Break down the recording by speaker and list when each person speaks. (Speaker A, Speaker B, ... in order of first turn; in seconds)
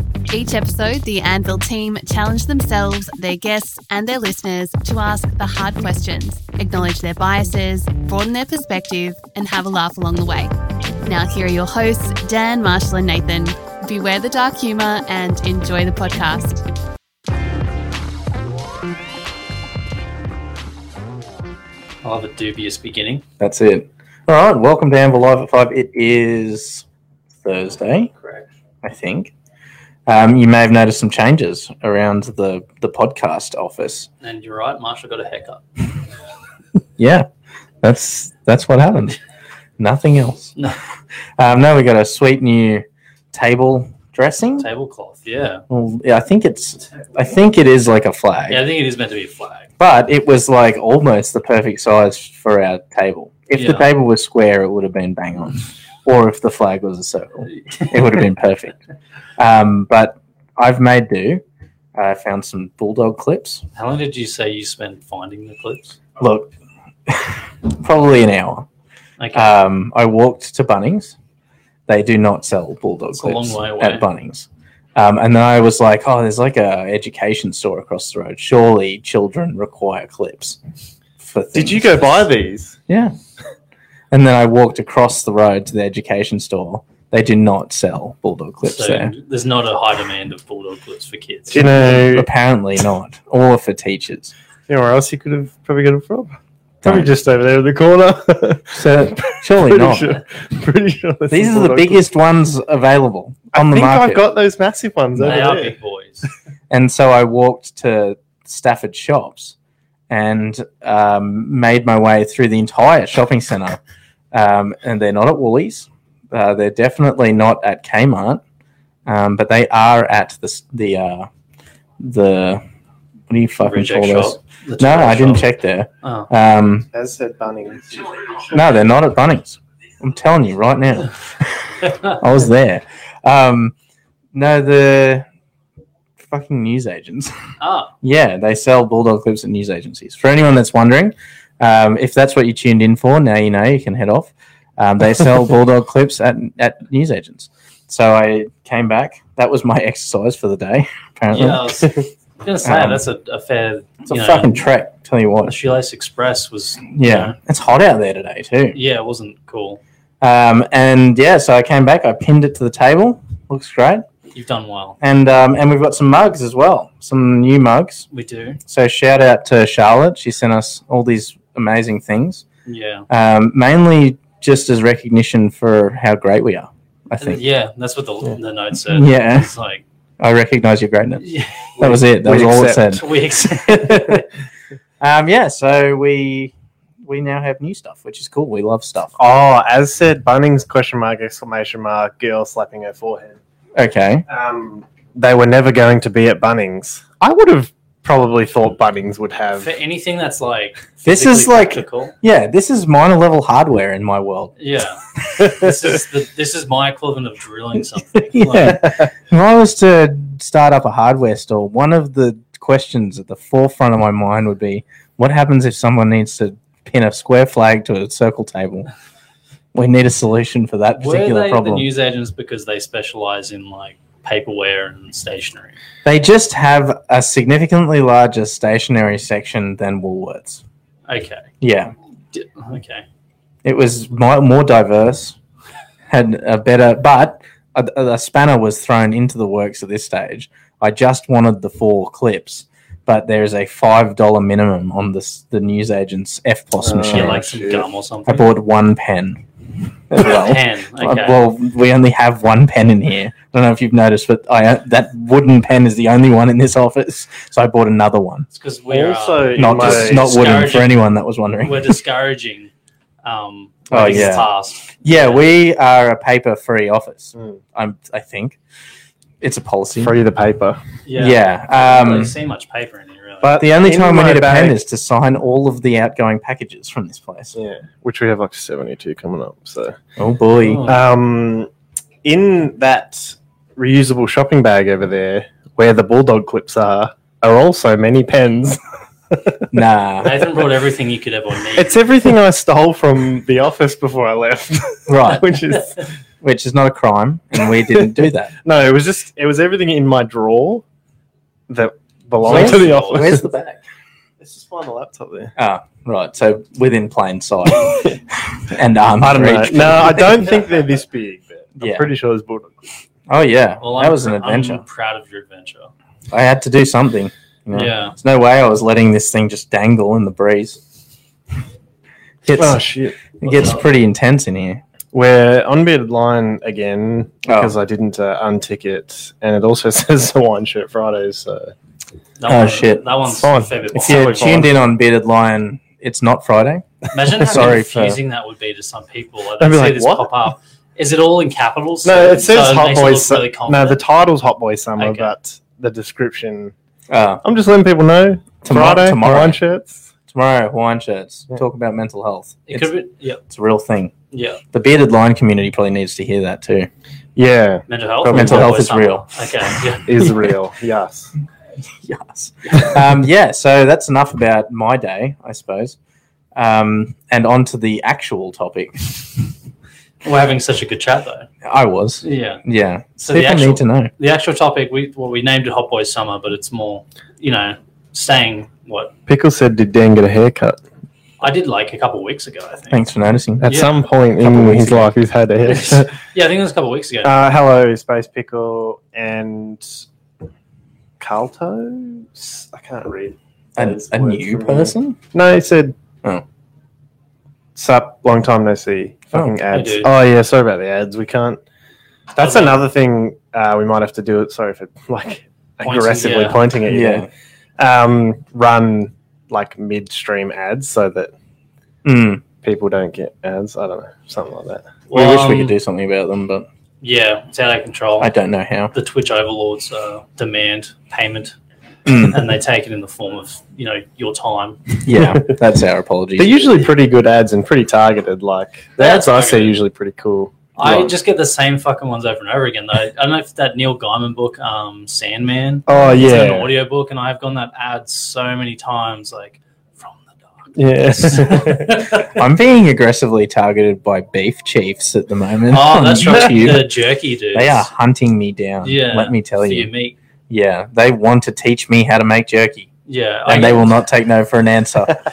Speaker A: 0.3-10.5, 11.0-16.6
Speaker B: 22.0-23.2, 34.2-35.6, 44.6-45.6, 48.5-49.7, 53.5-53.9, 63.8-66.0, 69.2-69.6, 73.1-74.0, 88.6-91.9, 105.2-106.3, 123.6-125.5, 126.0-126.3, 137.6-137.9, 151.3-154.5, 155.4-157.3, 158.7-159.8, 164.3-165.0, 168.1-168.6, 172.7-173.1, 177.2-179.8, 181.2-181.7, 182.9-184.2, 199.5-202.1, 204.6-208.9, 221.0-225.8, 231.1-231.5, 232.3-233.0, 247.0-248.5, 250.2-251.4, 258.5-261.0, 261.6-262.7, 263.2-265.4, 271.1-273.6, 280.6-281.0, 290.2-292.0, 302.4-303.4, 313.8-315.9, 317.7-318.1, 323.5-323.8, 332.4-334.7, 337.1-344.0, 345.0-345.3, 352.7-353.4, 354.3-354.6, 357.9-360.1, 370.2-371.5, 372.2-372.6, 373.2-379.1, 381.4-383.0, 383.6-384.0, 385.6-387.3, 399.7-400.1, 402.4-402.8, 405.8-406.7, 415.1-415.7, 417.0-418.3, 418.9-421.5, 422.2-425.0, 429.0-429.8, 430.8-442.4, 445.7-447.9, 448.8-450.1, 453.1-453.9
Speaker C: 23.4-26.9, 27.4-28.1, 28.8-29.3, 30.1-34.1, 37.0-37.3, 37.8-39.2, 39.8-40.5, 41.4-44.7, 45.7-48.6, 49.8-58.7, 59.4-61.4, 62.0-63.6, 66.2-66.5, 67.1-68.7, 69.3-71.2, 71.9-80.6, 81.2-82.2, 82.9-83.1, 84.1-89.1, 91.9-94.3, 96.8-97.1, 98.7-100.2, 101.3-104.2, 105.2-105.4, 106.7-109.5, 110.1-113.8, 114.3-118.4, 119.0-121.3, 122.0-122.6, 123.3-126.9, 128.5-133.7, 134.3-135.3, 136.2-137.3, 138.0-151.8, 152.6-153.0, 154.1-155.6, 156.9-158.8, 160.2-164.1, 165.0-168.1, 168.7-172.4, 173.1-177.4, 178.8-179.5, 180.2-181.2, 181.8-184.2, 185.0-189.2, 193.7-194.2, 201.0-204.5, 208.3-218.9, 219.7-221.9, 226.0-230.6, 231.6-231.9, 233.6-235.3, 236.1-247.4, 248.3-249.4, 250.1-258.4, 259.6-262.0, 263.9-264.5, 265.0-268.6, 269.4-270.1, 271.1-272.3, 273.6-277.5, 280.2-280.8, 289.7-290.4, 295.1-295.5, 296.4-298.5, 302.4-303.8, 305.6-310.4, 311.8-312.1, 313.3-314.8, 316.3-320.8, 322.4-322.8, 323.4-324.8, 327.4-327.7, 332.5-333.0, 333.9-336.9, 337.4-338.2, 347.1-347.4, 348.6-349.6, 350.3-352.9, 353.5-354.1, 354.7-356.9, 358.3-359.4, 360.2-360.5, 362.0-365.9, 366.5-369.2, 371.6-374.1, 382.9-383.8, 384.4-385.1, 393.8-395.2, 399.3-399.6, 406.9-407.3, 412.0-412.4, 415.1-416.6, 418.2-418.9, 422.1-422.4, 425.0-426.6, 442.1-446.9, 447.5-449.9, 450.5-452.9, 453.4-455.1
Speaker D: 81.5-82.8, 91.5-92.3, 94.7-102.0, 103.5-105.8, 126.9-128.4, 181.8-183.0, 189.2-193.4, 194.3-199.7, 246.8-247.8, 258.9-260.5, 270.0-270.8, 273.4-274.8, 277.5-280.0, 280.8-281.7, 282.2-288.8, 289.3-289.7, 291.7-296.1, 298.6-300.8, 301.7-303.4, 304.4-305.5, 309.3-312.9, 322.5-323.2, 325.1-331.7, 333.4-334.7, 339.6-340.3, 342.0-346.7, 347.4-350.0, 357.4-358.7, 360.1-361.3, 379.3-380.8, 383.6-386.1, 387.2-390.0, 391.2-395.9, 397.8-401.6, 402.3-411.3, 412.6-415.0, 425.1-425.5, 426.4-431.1, 435.9-436.7, 440.8-442.1